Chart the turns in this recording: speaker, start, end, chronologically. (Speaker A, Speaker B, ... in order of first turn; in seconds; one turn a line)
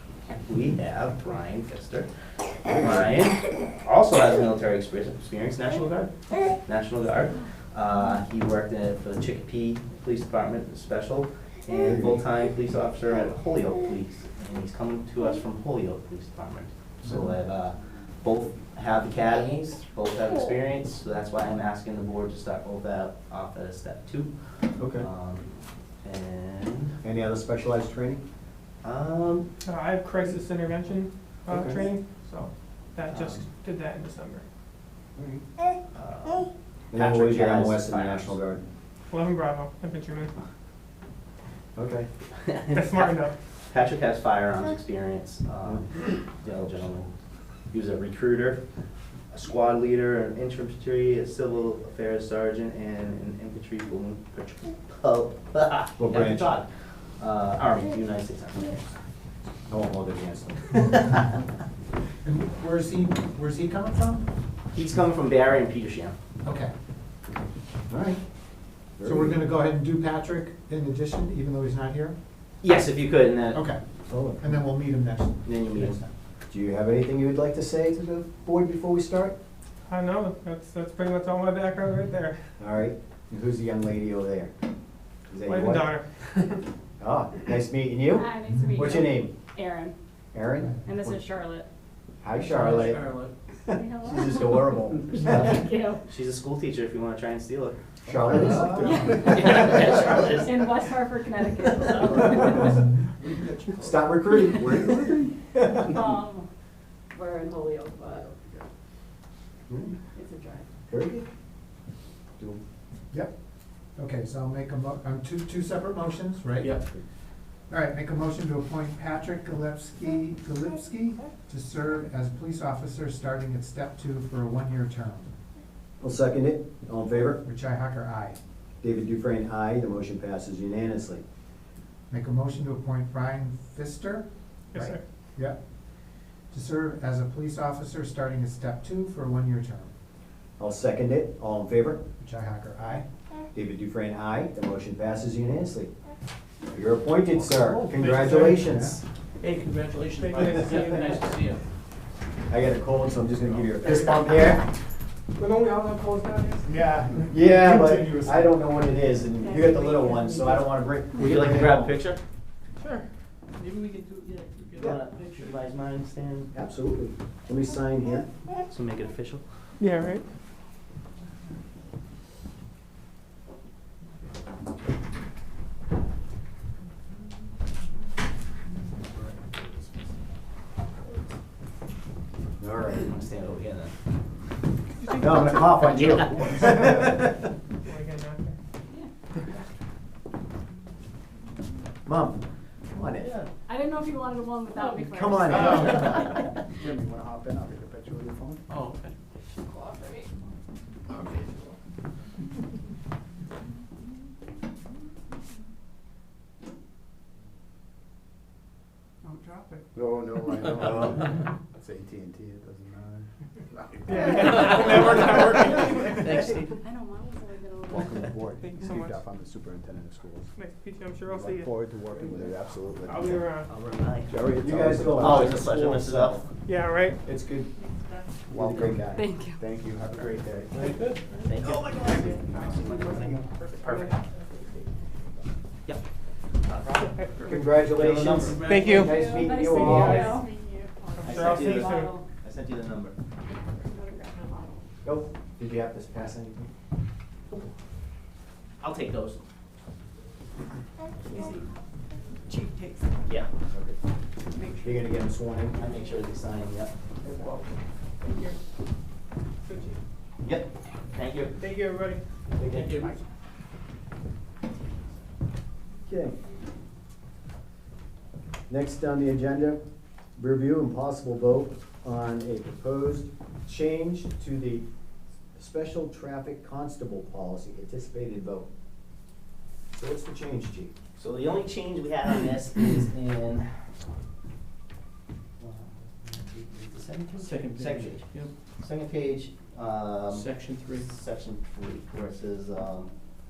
Speaker A: 0.3-2.1
Speaker A: 2.6-25.5
Speaker B: 11.9-12.2
Speaker B: 24.8-25.1
Speaker A: 26.0-26.9
Speaker B: 27.0-28.2
Speaker A: 28.8-29.5
Speaker C: 29.6-34.4
Speaker B: 31.5-31.8
Speaker A: 33.1-33.4
Speaker B: 35.1-35.4
Speaker A: 35.9-38.4
Speaker B: 36.9-38.6
Speaker C: 39.1-40.3
Speaker B: 41.8-42.1
Speaker A: 42.4-47.1
Speaker C: 42.7-43.3
Speaker A: 47.7-48.6
Speaker A: 49.3-56.7
Speaker B: 56.0-56.5
Speaker A: 57.2-58.9
Speaker B: 59.7-61.2
Speaker D: 62.2-64.3
Speaker A: 64.7-66.1
Speaker D: 66.4-66.7
Speaker B: 67.9-68.2
Speaker B: 69.0-69.4
Speaker D: 69.0-72.2
Speaker A: 72.6-73.6
Speaker D: 73.5-73.8
Speaker B: 74.0-74.4
Speaker D: 74.4-76.1
Speaker A: 75.4-76.0
Speaker B: 76.5-79.3
Speaker C: 79.9-82.4
Speaker B: 82.6-84.5
Speaker B: 85.3-85.9
Speaker C: 85.4-86.6
Speaker B: 87.0-89.3
Speaker E: 88.1-89.9
Speaker B: 90.3-91.2
Speaker E: 90.8-91.7
Speaker B: 92.2-93.0
Speaker F: 92.4-93.3
Speaker B: 93.7-95.6
Speaker E: 93.7-96.0
Speaker A: 95.2-95.5
Speaker A: 96.0-97.8
Speaker B: 98.0-99.1
Speaker G: 98.1-99.7
Speaker E: 98.8-99.6
Speaker A: 99.2-100.7
Speaker E: 100.3-102.7
Speaker B: 103.8-106.0
Speaker E: 105.9-106.5
Speaker E: 107.1-108.3
Speaker G: 108.2-108.6
Speaker B: 109.7-110.0
Speaker E: 110.1-110.7
Speaker B: 110.9-111.2
Speaker D: 114.0-116.7
Speaker D: 117.7-125.3
Speaker B: 126.0-127.4
Speaker D: 127.4-128.4
Speaker B: 128.8-131.2
Speaker D: 132.1-135.6
Speaker C: 134.7-135.0
Speaker D: 136.5-139.9
Speaker B: 140.6-142.0
Speaker D: 142.2-143.1
Speaker B: 143.5-145.9
Speaker B: 146.7-149.0
Speaker D: 148.2-149.0
Speaker F: 149.4-151.6
Speaker C: 150.2-151.2
Speaker B: 152.5-154.7
Speaker C: 153.8-154.3
Speaker C: 155.4-156.7
Speaker G: 156.7-157.3
Speaker B: 157.3-161.9
Speaker A: 161.2-162.2
Speaker F: 163.6-165.5
Speaker A: 164.8-166.5
Speaker B: 166.5-168.3
Speaker A: 168.6-169.4
Speaker C: 169.8-170.2
Speaker G: 179.2-179.7
Speaker B: 182.6-183.1
Speaker A: 182.9-183.9
Speaker C: 185.0-185.5
Speaker B: 185.1-187.3
Speaker A: 185.9-186.7
Speaker C: 187.8-188.6
Speaker B: 192.1-192.4
Speaker B: 192.9-193.3
Speaker A: 193.2-193.5
Speaker E: 193.7-196.3
Speaker B: 195.0-196.2
Speaker G: 195.5-196.2
Speaker G: 196.8-198.6
Speaker F: 198.7-199.1
Speaker E: 199.6-200.3
Speaker G: 201.1-201.7
Speaker C: 209.4-209.8
Speaker G: 209.9-216.1
Speaker B: 210.8-211.2
Speaker C: 214.1-216.4
Speaker F: 214.6-215.3
Speaker F: 216.2-216.7
Speaker E: 216.8-218.2
Speaker G: 217.9-220.5
Speaker C: 218.6-219.2
Speaker C: 220.6-221.7
Speaker G: 221.3-223.5
Speaker C: 223.0-223.7
Speaker A: 223.6-224.3
Speaker G: 224.3-226.4
Speaker B: 224.6-225.7
Speaker A: 225.2-226.5
Speaker C: 226.7-227.2
Speaker B: 227.2-227.7
Speaker B: 228.5-229.2
Speaker G: 228.5-231.0
Speaker E: 229.1-229.6
Speaker F: 230.9-231.2
Speaker A: 231.4-234.2
Speaker C: 231.7-234.4
Speaker G: 232.6-233.4
Speaker A: 236.7-237.1
Speaker C: 236.9-237.7
Speaker B: 237.4-240.4
Speaker A: 238.0-238.7
Speaker F: 238.0-239.1
Speaker C: 238.6-240.3
Speaker E: 239.0-240.6
Speaker C: 241.2-242.1
Speaker A: 241.2-243.2
Speaker E: 241.4-242.2
Speaker E: 243.7-244.8
Speaker B: 245.0-246.7
Speaker A: 248.8-249.4
Speaker A: 251.2-251.7
Speaker B: 253.7-254.0
Speaker B: 254.8-255.8
Speaker A: 255.7-256.9
Speaker C: 257.2-257.6
Speaker C: 258.2-258.6
Speaker C: 259.6-260.0
Speaker A: 260.4-261.5
Speaker C: 261.6-262.2
Speaker B: 262.6-263.1
Speaker F: 262.6-263.2
Speaker B: 266.1-266.3
Speaker B: 268.7-269.8
Speaker B: 270.4-274.8
Speaker B: 275.6-278.7
Speaker B: 279.9-280.9
Speaker A: 281.2-283.7
Speaker A: 285.6-288.3
Speaker F: 287.4-288.5
Speaker A: 288.8-293.1
Speaker F: 290.3-291.1